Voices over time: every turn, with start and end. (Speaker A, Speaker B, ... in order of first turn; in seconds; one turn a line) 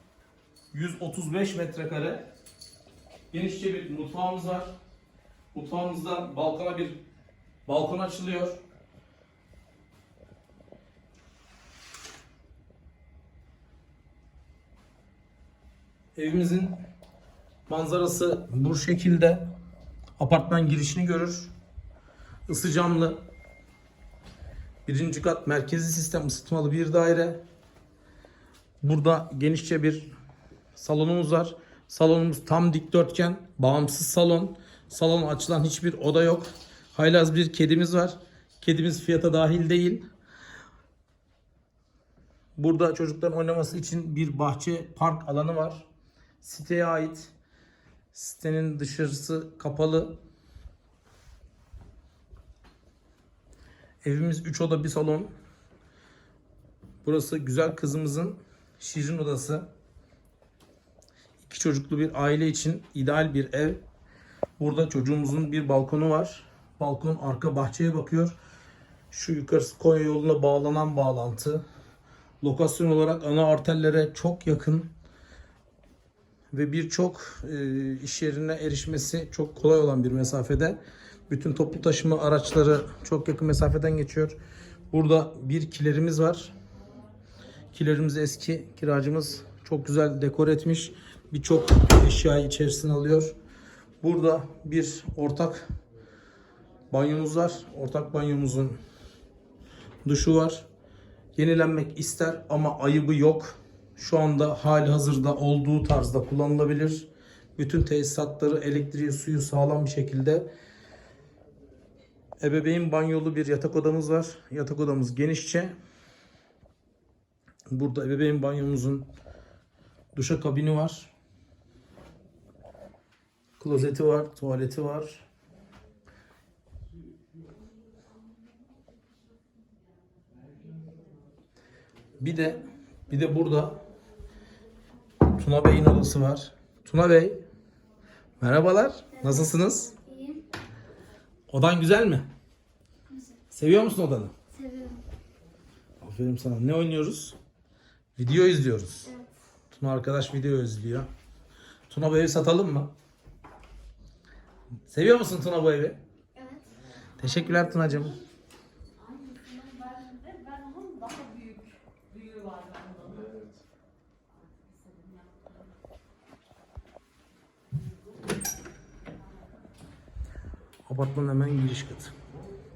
Speaker A: 0.7-2.3
Speaker A: 3.3-4.8
Speaker A: 5.5-7.0
Speaker A: 7.7-8.6
Speaker A: 16.2-16.8
Speaker A: 17.7-19.5
Speaker A: 20.2-21.5
Speaker A: 22.5-23.2
Speaker A: 24.9-27.4
Speaker A: 28.8-30.1
Speaker A: 30.8-40.0
Speaker A: 42.6-45.9
Speaker A: 46.4-47.3
Speaker A: 48.1-50.2
Speaker A: 54.0-55.3
Speaker A: 57.0-59.7
Speaker A: 61.4-63.8
Speaker A: 64.6-68.3
Speaker A: 69.1-71.6
Speaker A: 72.4-74.9
Speaker A: 76.5-84.4
Speaker A: 84.9-86.5
Speaker A: 87.7-93.3
Speaker A: 94.0-95.7
Speaker A: 96.9-98.8
Speaker A: 100.0-100.7
Speaker A: 101.4-110.5
Speaker A: 112.4-115.7
Speaker A: 117.7-119.1
Speaker A: 120.1-121.1
Speaker A: 123.6-125.2
Speaker A: 132.2-133.8
Speaker A: 135.3-137.4
Speaker A: 138.4-139.9
Speaker B: 139.2-140.4
Speaker A: 141.5-142.3
Speaker B: 143.1-143.4
Speaker A: 143.5-144.3
Speaker B: 144.5-145.0
Speaker A: 146.0-147.4
Speaker A: 148.2-149.1
Speaker A: 149.7-151.1
Speaker A: 151.9-152.9
Speaker A: 154.9-156.0
Speaker B: 156.4-156.7
Speaker A: 157.2-158.2
Speaker C: 159.1-163.3
Speaker C: 164.7-165.5
Speaker A: 170.9-172.1